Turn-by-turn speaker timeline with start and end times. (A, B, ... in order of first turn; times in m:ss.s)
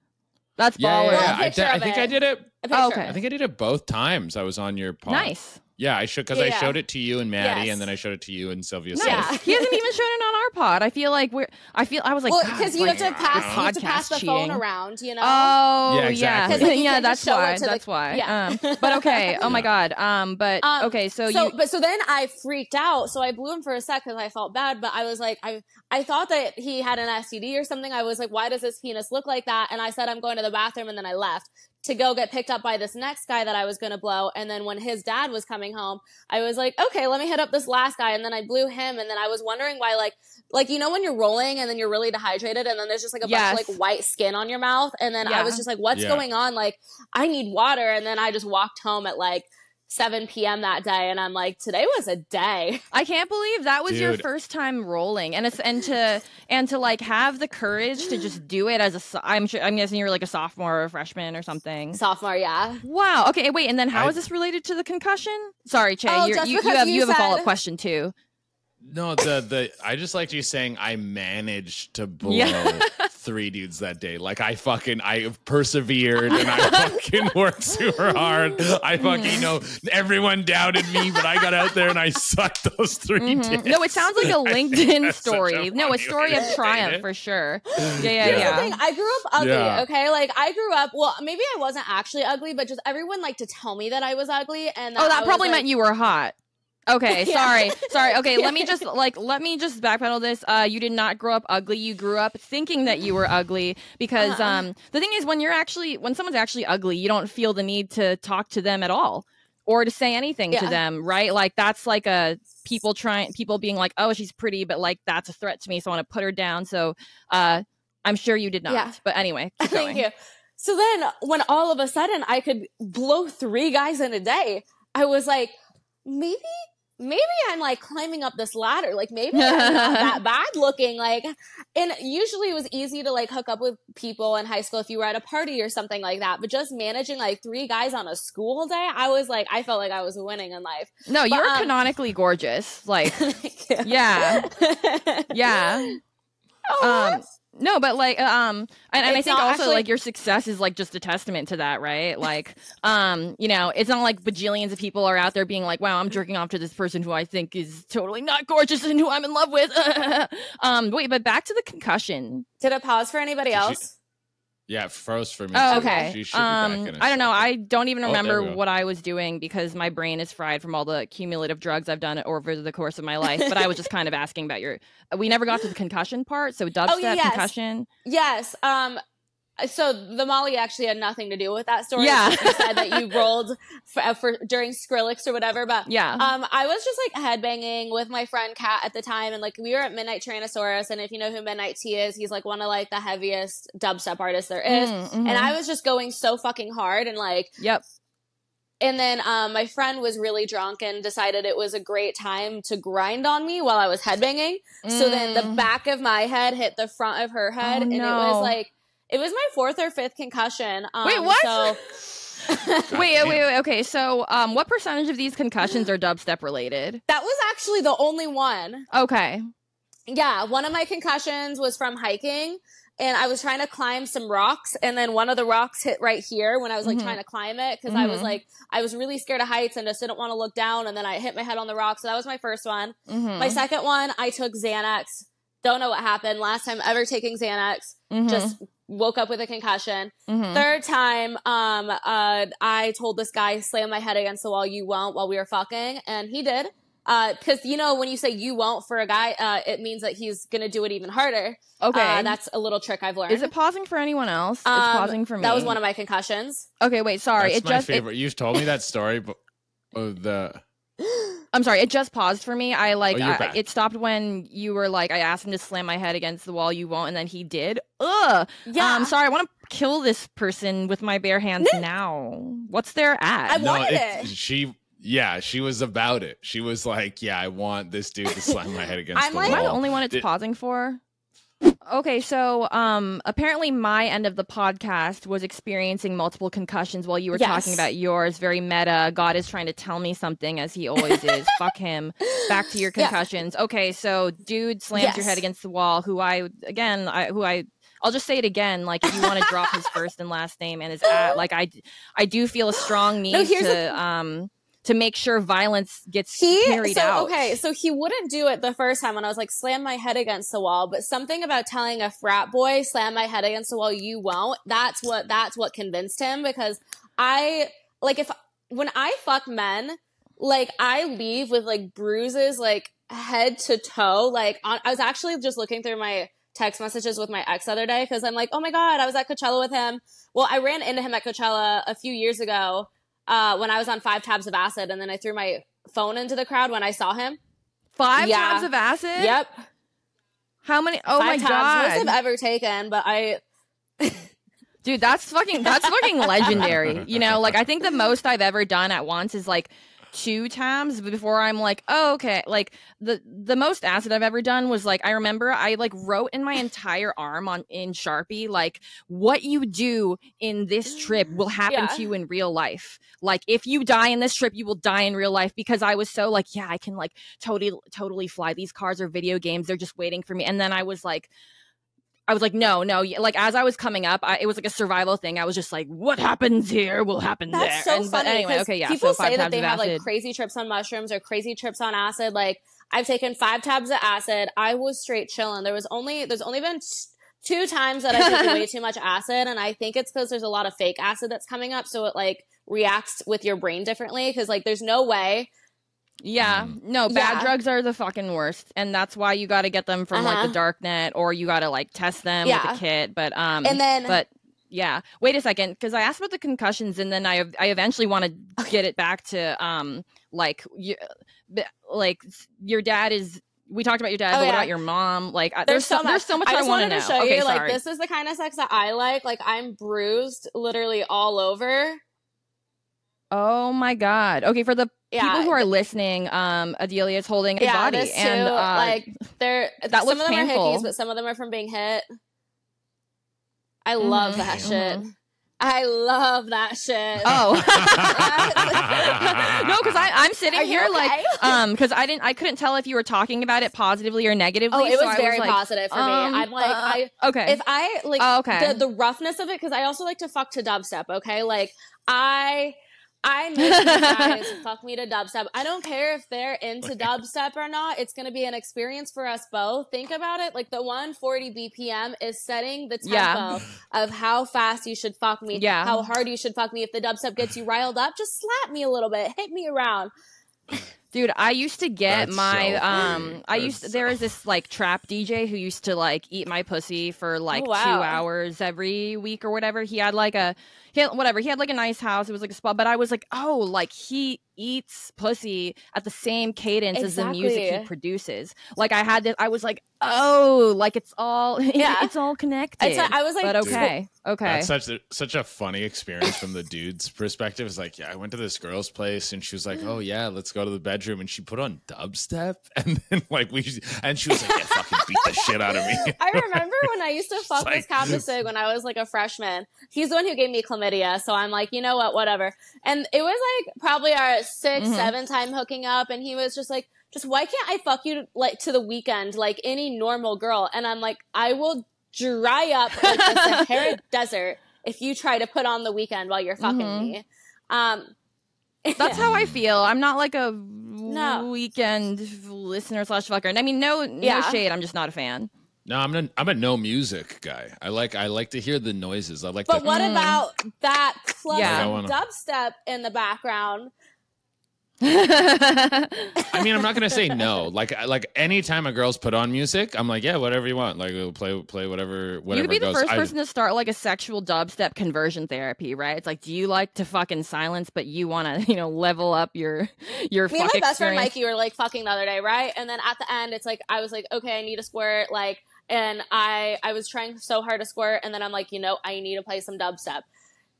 0:00.6-0:01.4 A
0:00.8-0:09.4 B
0:01.1-0:03.2 C
0:02.7-0:03.2 A
0:05.0-0:05.6 A
0:06.3-0:06.8 C
0:07.4-0:07.8 C
0:08.9-0:14.6 A
0:09.0-0:09.8 C
0:12.3-0:15.6 C
0:13.1-0:13.6 B
0:15.2-0:21.5 A
0:15.9-0:16.7 B
0:16.5-0:19.6 C
0:20.6-0:52.8 C
0:43.2-0:43.8 A
0:45.2-0:45.6 A
0:45.9-0:46.2 B
0:52.9-1:02.0 A
0:53.9-0:54.2 B
1:01.9-1:02.8 C
1:02.8-1:08.1 A
1:06.1-1:07.5 C
1:08.8-1:27.0 B
1:12.2-1:13.1 A
1:16.3-1:17.0 A
1:19.0-1:19.5 A
1:23.2-1:28.8 A
1:27.8-1:28.6 B
1:27.8-1:35.6 C
1:29.3-1:29.8 B
1:35.0-1:36.3 A
1:36.9-2:00.0 A
1:37.1-1:38.8 C
1:44.2-1:44.6 C
1:50.5-1:50.8 C
1:58.7-1:59.0 C
1:59.6-2:21.7 C
2:09.3-2:10.2 A
2:21.1-2:24.5 A
2:23.1-2:25.9 C
2:25.3-2:26.0 A
2:26.7-2:27.2 C
2:26.8-2:42.4 A
2:29.0-2:29.8 C
2:42.6-2:43.9 C
2:43.5-2:43.9 B
2:44.7-2:47.4 B
2:45.5-2:57.9 A
2:45.6-2:46.1 C
2:48.0-2:48.6 B
2:53.5-2:53.8 C
2:56.8-2:57.5 C
2:58.0-2:59.0 C
2:59.6-3:17.5 C
3:02.0-3:03.2 A
3:05.8-3:06.3 A
3:14.7-3:15.5 A
3:18.8-3:31.8 C
3:24.8-3:25.6 A
3:27.6-3:28.5 A
3:31.0-3:32.0 A
3:32.5-3:32.9 C
3:32.8-3:37.0 A
3:32.9-3:33.4 B
3:37.1-3:38.9 C
3:38.9-3:39.4 A
3:40.1-4:13.5 C
3:46.8-3:47.2 A
3:47.9-3:48.4 A
3:53.1-3:53.6 A
3:58.1-3:58.5 A
4:00.3-4:00.6 A
4:11.8-4:12.4 A
4:13.3-4:15.8 A
4:14.6-4:16.7 C
4:16.8-4:18.0 A
4:17.4-4:19.4 B
4:19.9-4:20.6 B
4:21.0-4:21.3 C
4:21.5-4:33.6 A
4:23.1-4:23.6 B
4:28.6-4:29.1 C
4:31.6-4:31.8 C
4:33.5-4:34.3 C
4:33.6-4:40.2 B
4:39.1-4:39.7 C
4:39.4-4:41.0 A
4:41.9-5:07.6 A
4:47.3-4:47.8 C
4:51.0-4:51.6 C
4:54.9-4:55.4 C
4:59.1-4:59.7 C
5:01.1-5:01.4 C
5:03.3-5:04.0 C
5:06.4-5:37.4 C
5:38.0-5:39.4 A
5:38.2-5:39.5 C
5:40.6-5:42.1 A
5:41.2-5:43.4 C
5:44.0-5:44.3 C
5:44.8-6:11.3 A
5:45.6-5:46.6 C
5:46.5-5:47.5 B
6:01.7-6:02.1 C
6:12.3-6:20.1 A
6:17.5-6:35.5 C
6:28.1-6:28.6 A
6:36.2-6:57.8 A
6:36.4-6:36.8 B
6:37.1-6:37.5 C
6:40.1-6:40.6 C
6:42.4-6:42.8 C
6:43.6-6:44.2 C
6:54.3-6:54.7 C
6:55.6-7:02.0 C
7:03.3-7:09.1 A
7:05.1-7:05.7 C
7:07.6-7:12.0 C
7:09.9-7:10.9 A
7:13.8-7:19.4 C
7:14.0-7:15.0 A
7:14.4-7:14.7 B
7:17.2-7:27.6 A
7:17.4-7:20.1 B
7:20.5-7:21.6 C
7:24.7-7:50.1 C
7:28.2-7:28.8 A
7:33.6-7:34.6 A
7:43.0-7:43.6 A
7:45.5-7:46.0 A
7:51.1-8:14.7 A
7:52.1-7:54.2 B
7:57.5-7:58.2 C
8:06.9-8:07.9 C
8:11.8-8:12.1 C
8:12.8-8:13.9 C
8:13.6-8:13.9 B
8:14.4-8:26.9 B
8:25.8-8:48.1 C
8:27.4-8:28.2 B
8:34.8-8:35.1 A
8:43.0-8:43.9 A
8:46.6-8:47.1 A
8:48.8-8:49.2 C
8:49.0-8:55.5 A
8:49.1-8:49.6 B
8:51.1-8:51.5 C
8:54.2-8:54.6 C
8:55.8-8:59.9 B
8:59.7-9:03.9 C
8:59.8-9:00.4 A
9:01.5-9:01.9 A
9:01.6-9:02.2 B
9:05.0-9:06.4 A
9:06.5-9:13.3 B
9:12.5-9:21.3 A
9:20.5-9:30.2 C